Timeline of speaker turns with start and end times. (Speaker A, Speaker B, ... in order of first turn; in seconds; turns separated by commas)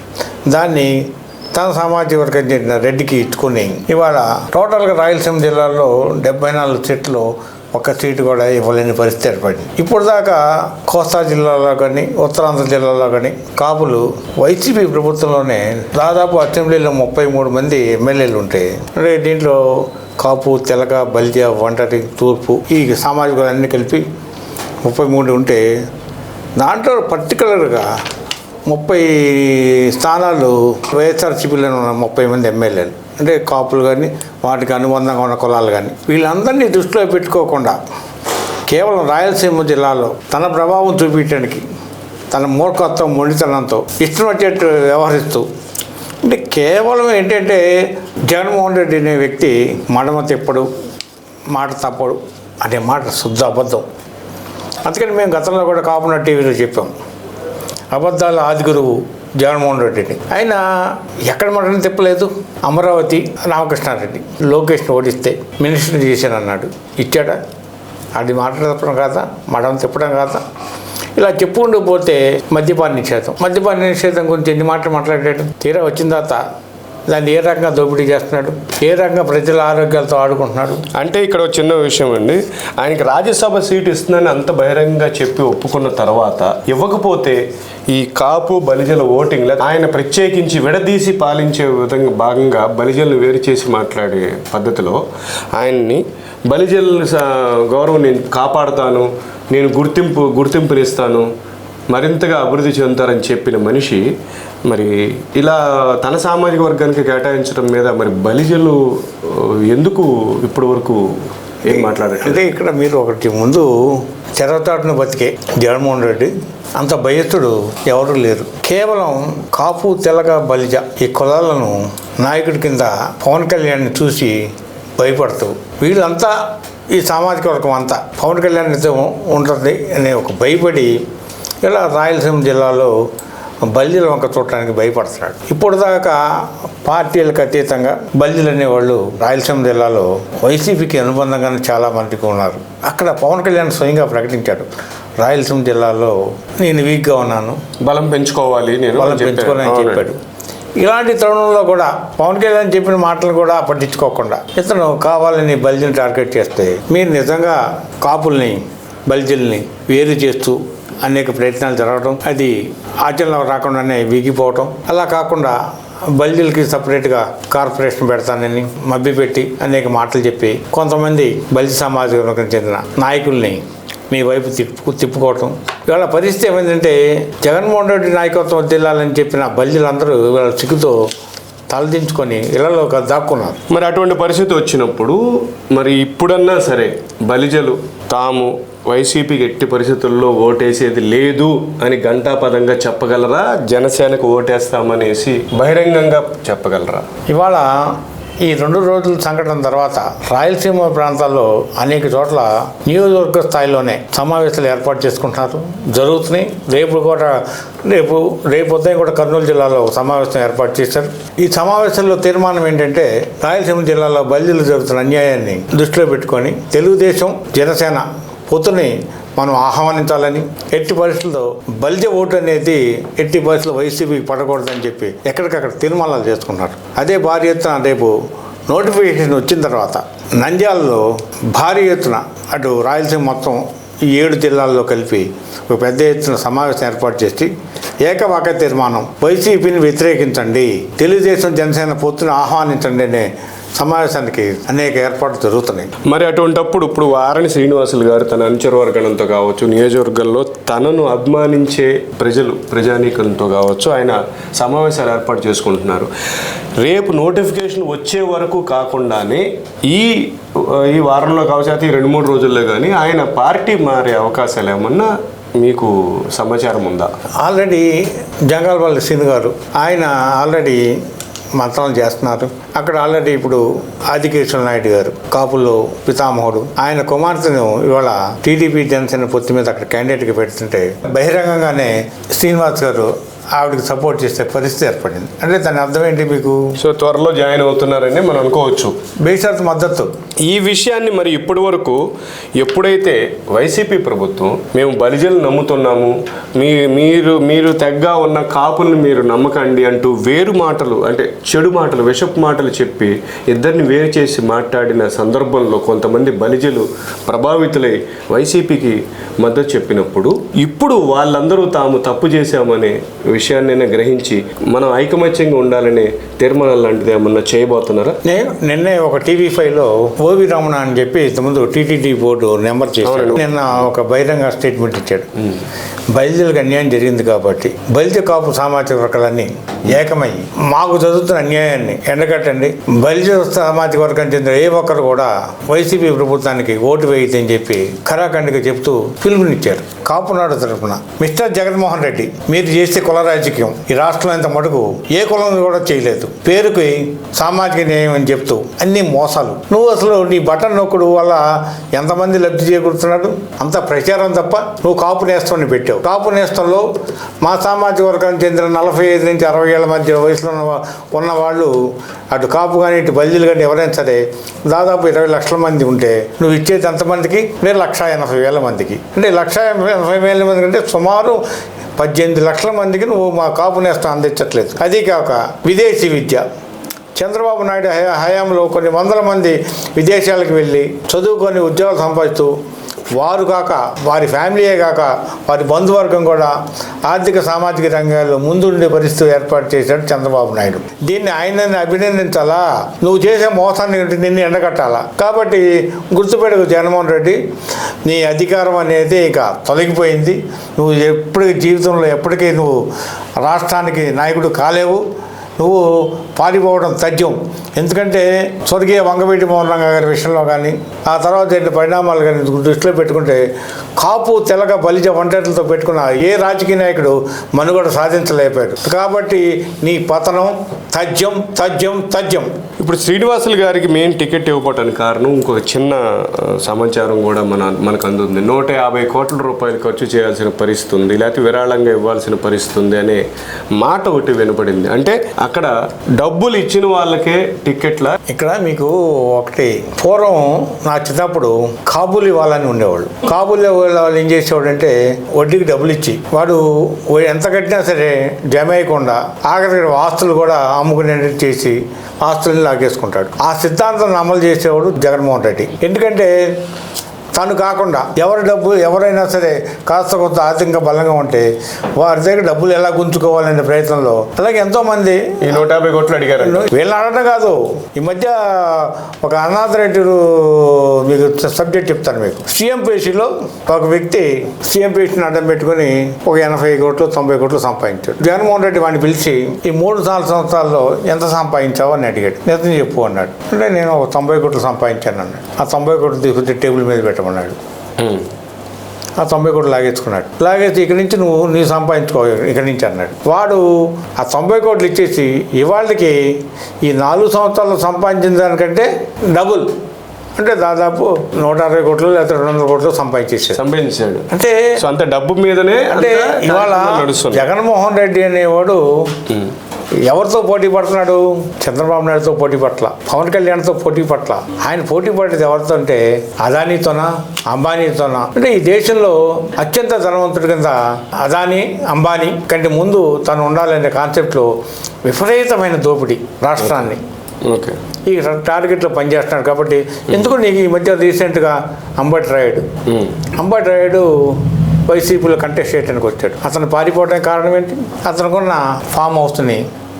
Speaker A: 0.5-0.9, Speaker A: 1.5-24.0, Speaker A: 24.8-25.6, Speaker A: 26.6-27.9, Speaker A: 28.7-37.8, Speaker A: 38.7-41.6, Speaker A: 42.3-45.4, Speaker A: 46.2-47.6, Speaker A: 48.3-50.7, Speaker A: 51.5-53.9, Speaker A: 54.8-56.9, Speaker A: 57.9-67.4, Speaker A: 68.2-70.4, Speaker A: 71.2-76.4, Speaker A: 77.1-80.8, Speaker B: 81.0-87.4, Speaker B: 87.9-95.0, Speaker B: 95.6-101.3, Speaker B: 101.9-104.0, Speaker B: 104.7-111.0, Speaker B: 111.7-112.4, Speaker A: 111.7-113.7, Speaker A: 114.3-124.4, Speaker A: 125.0-126.3, Speaker A: 126.9-130.9, Speaker A: 131.6-132.9, Speaker A: 133.7-136.2, Speaker A: 136.8-144.7, Speaker A: 145.2-147.6, Speaker B: 147.8-150.1, Speaker A: 148.9-150.2, Speaker A: 150.8-165.6, Speaker A: 166.1-181.0, Speaker A: 181.7-183.6, Speaker B: 183.7-185.2, Speaker B: 185.7-197.1, Speaker A: 197.3-197.7, Speaker A: 198.4-228.1, Speaker A: 228.7-237.5, Speaker A: 238.0-245.9, Speaker B: 246.1-256.1, Speaker B: 256.8-267.1, Speaker A: 267.4-267.9, Speaker A: 268.5-270.8, Speaker A: 271.6-286.6, Speaker B: 286.8-288.9, Speaker A: 289.2-290.1, Speaker B: 290.4-292.0, Speaker B: 292.6-318.2, Speaker A: 318.2-325.3, Speaker B: 323.0-323.4, Speaker A: 326.1-356.9, Speaker A: 357.4-361.7, Speaker A: 362.3-371.4, Speaker A: 372.0-376.4, Speaker A: 377.1-382.5, Speaker A: 383.1-386.5, Speaker A: 387.1-397.4, Speaker A: 398.0-402.8, Speaker A: 403.4-405.0, Speaker A: 405.6-413.4, Speaker A: 414.0-422.5, Speaker B: 422.8-433.2, Speaker B: 433.8-438.2, Speaker A: 438.3-456.3, Speaker A: 457.4-465.6, Speaker B: 465.4-466.7, Speaker A: 466.4-487.6, Speaker B: 488.0-488.3, Speaker A: 489.2-496.2, Speaker A: 496.8-499.7, Speaker A: 500.4-503.6, Speaker B: 503.5-507.4, Speaker A: 504.3-504.7, Speaker A: 505.9-508.8, Speaker A: 510.1-524.5, Speaker A: 525.0-527.0, Speaker B: 527.4-527.8, Speaker A: 528.0-532.6, Speaker B: 532.9-533.1, Speaker A: 533.4-534.1, Speaker A: 534.9-539.6